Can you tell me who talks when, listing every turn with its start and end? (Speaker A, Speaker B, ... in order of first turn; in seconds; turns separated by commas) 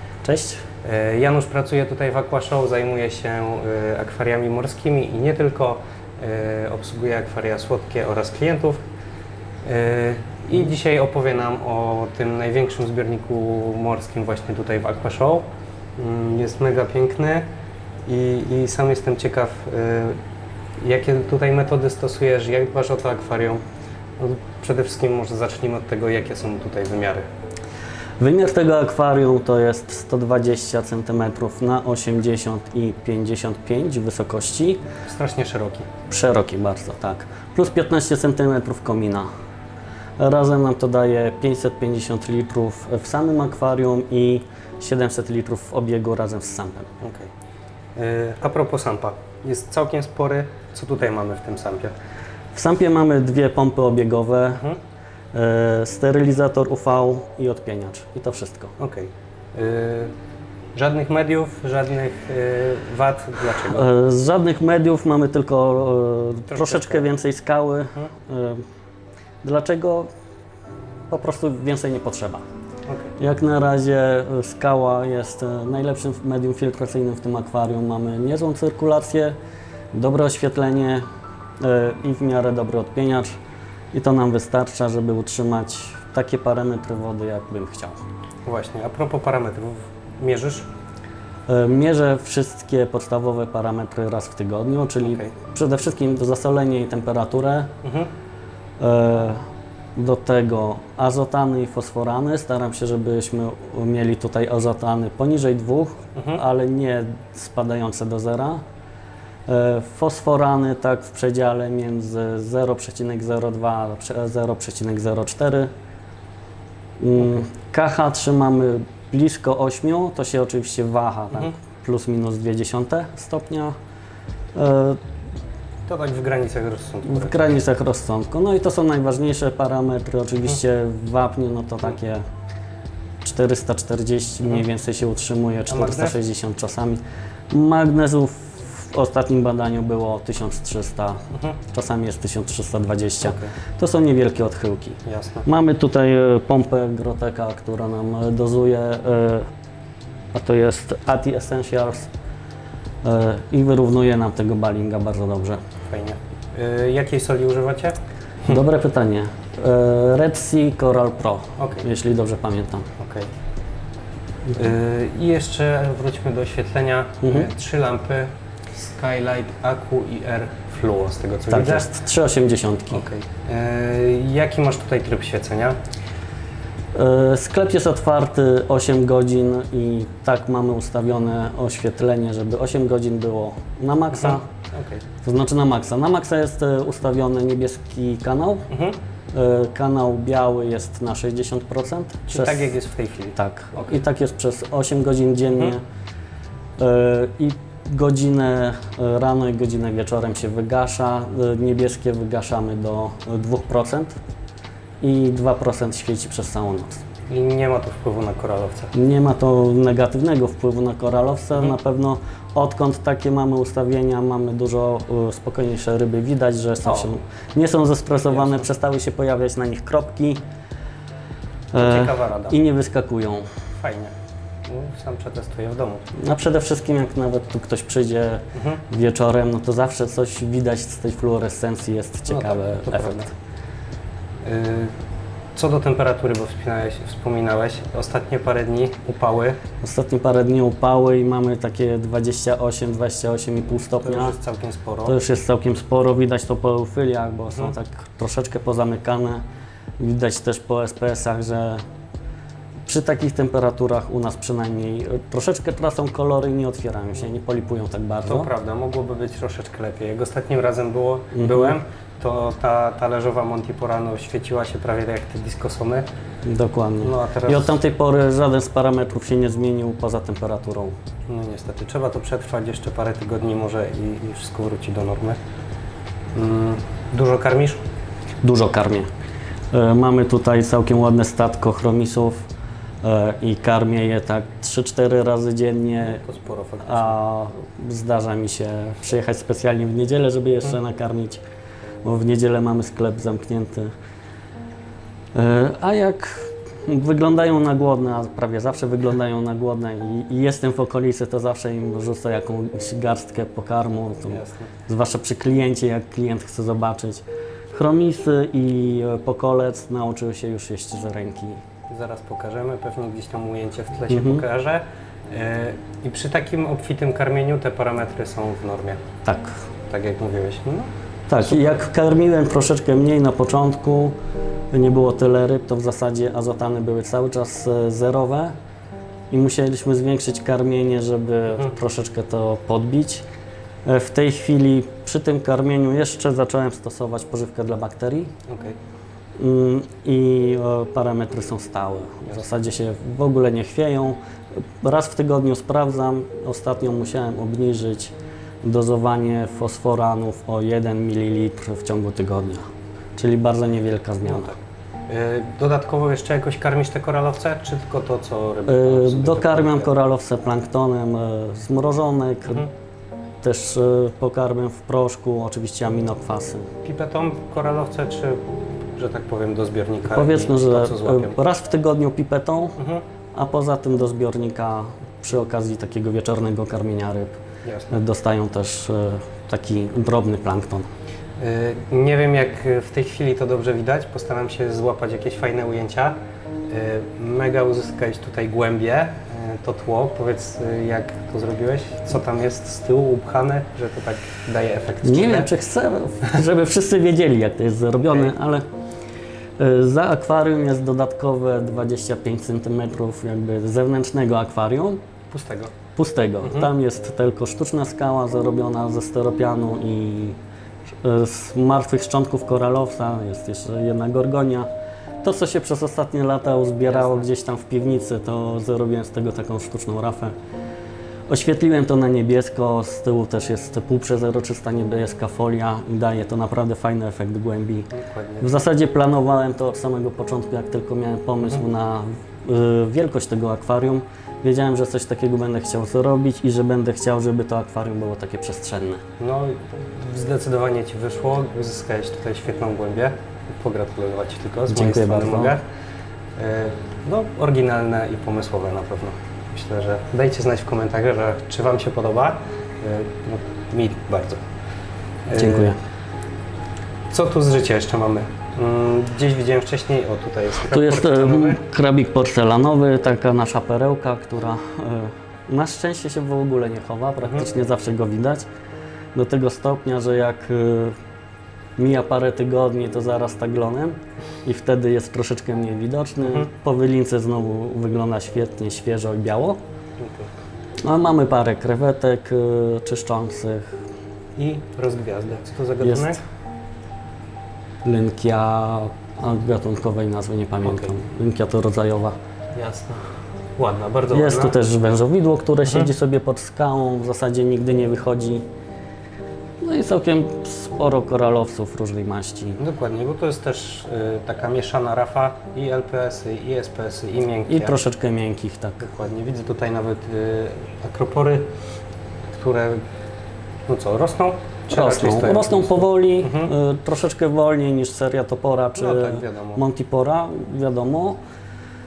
Speaker A: 0.2-0.7, Speaker B: 0.8-8.8, Speaker B: 9.6-15.5, Speaker B: 16.0-17.5, Speaker B: 18.1-20.2, Speaker B: 20.8-23.6, Speaker B: 24.2-27.3, Speaker A: 28.2-34.8, Speaker B: 35.1-35.9, Speaker A: 36.1-39.3, Speaker A: 40.2-46.9, Speaker B: 47.0-47.3, Speaker B: 48.0-51.9, Speaker A: 52.5-54.6, Speaker A: 55.3-58.7, Speaker B: 58.8-60.1, Speaker B: 60.8-63.9, Speaker A: 63.6-68.7, Speaker B: 66.5-67.0, Speaker A: 69.4-70.1, Speaker A: 71.1-72.5, Speaker B: 72.9-73.2, Speaker A: 73.2-79.3, Speaker A: 79.9-81.0, Speaker A: 81.6-83.3, Speaker A: 83.9-88.0, Speaker B: 88.5-90.7, Speaker A: 91.5-97.7, Speaker B: 95.0-95.3, Speaker B: 97.8-98.1, Speaker A: 98.8-99.4, Speaker A: 100.0-108.6, Speaker B: 106.2-106.4, Speaker A: 109.5-115.7, Speaker A: 117.0-123.8, Speaker A: 124.5-125.0, Speaker B: 125.9-127.5, Speaker A: 127.1-132.2, Speaker A: 133.2-149.5, Speaker B: 135.7-136.2, Speaker B: 143.2-143.5, Speaker B: 145.1-145.5, Speaker A: 150.3-152.1, Speaker A: 153.0-155.6, Speaker B: 155.9-158.0, Speaker A: 158.5-162.9, Speaker B: 161.6-161.9, Speaker B: 163.0-163.3, Speaker B: 164.5-171.9, Speaker A: 167.2-167.5, Speaker A: 171.5-173.1, Speaker B: 172.9-175.8, Speaker A: 176.9-184.4, Speaker B: 184.1-185.0, Speaker A: 185.2-188.7, Speaker B: 188.7-189.0, Speaker A: 189.3-192.7, Speaker B: 192.3-193.9, Speaker A: 193.4-195.8, Speaker A: 196.8-204.2, Speaker A: 205.0-207.0, Speaker B: 207.3-208.9, Speaker A: 208.9-220.4, Speaker B: 216.8-217.1, Speaker B: 218.3-218.7, Speaker A: 221.7-223.5, Speaker B: 221.8-222.6, Speaker B: 223.8-224.1, Speaker B: 224.7-226.1, Speaker A: 226.2-233.3, Speaker B: 228.6-228.8, Speaker B: 232.3-233.3, Speaker B: 234.4-234.9, Speaker B: 235.6-239.6, Speaker A: 239.8-244.3, Speaker B: 244.0-245.2, Speaker A: 245.1-249.4, Speaker A: 250.0-251.8, Speaker A: 252.9-258.5, Speaker B: 258.3-266.1, Speaker A: 261.4-261.8, Speaker A: 266.4-270.9, Speaker B: 267.0-267.8, Speaker B: 271.3-275.4, Speaker B: 276.3-277.8, Speaker A: 278.4-279.1, Speaker A: 279.7-282.4, Speaker A: 283.0-286.2, Speaker B: 286.0-287.2, Speaker A: 286.8-291.4, Speaker A: 292.0-293.9, Speaker A: 295.3-311.6, Speaker B: 304.3-304.7, Speaker B: 311.9-319.0, Speaker A: 314.1-314.4, Speaker A: 319.2-319.6, Speaker B: 319.9-321.8, Speaker A: 321.3-324.2, Speaker A: 324.7-328.5, Speaker A: 329.3-333.2, Speaker A: 333.9-338.3, Speaker B: 338.5-338.8, Speaker A: 339.4-344.2, Speaker A: 344.8-352.6, Speaker A: 353.2-354.6, Speaker B: 354.3-354.5, Speaker B: 355.1-359.9, Speaker A: 358.7-362.7, Speaker A: 363.4-366.7, Speaker B: 366.8-371.4, Speaker A: 370.1-372.8, Speaker B: 372.8-373.0, Speaker A: 373.3-377.4, Speaker B: 377.6-378.0, Speaker A: 377.9-380.9, Speaker B: 381.4-386.2, Speaker B: 386.7-395.5, Speaker A: 395.0-398.6, Speaker B: 398.0-398.3, Speaker A: 399.6-405.0, Speaker B: 405.3-405.7, Speaker A: 406.0-410.4, Speaker B: 406.4-406.7, Speaker A: 411.0-414.7, Speaker A: 415.2-420.3, Speaker B: 416.9-417.3, Speaker A: 421.3-439.0, Speaker B: 427.9-428.5, Speaker B: 439.2-445.6, Speaker A: 444.7-445.6, Speaker B: 446.4-454.4, Speaker B: 455.3-455.8, Speaker A: 455.4-455.8, Speaker B: 457.1-461.6, Speaker A: 460.7-468.5, Speaker A: 469.1-471.0, Speaker A: 471.8-479.6, Speaker B: 476.2-476.5, Speaker B: 480.0-480.3, Speaker A: 480.8-483.8, Speaker B: 484.4-486.2, Speaker A: 485.8-486.1, Speaker A: 487.8-492.2, Speaker B: 492.6-494.6, Speaker A: 494.1-498.5, Speaker B: 495.6-495.9, Speaker A: 499.6-502.6, Speaker B: 502.6-507.8, Speaker A: 507.5-508.9, Speaker B: 508.8-511.5, Speaker B: 512.3-512.8, Speaker B: 513.7-516.5, Speaker A: 514.7-521.2, Speaker B: 518.8-519.6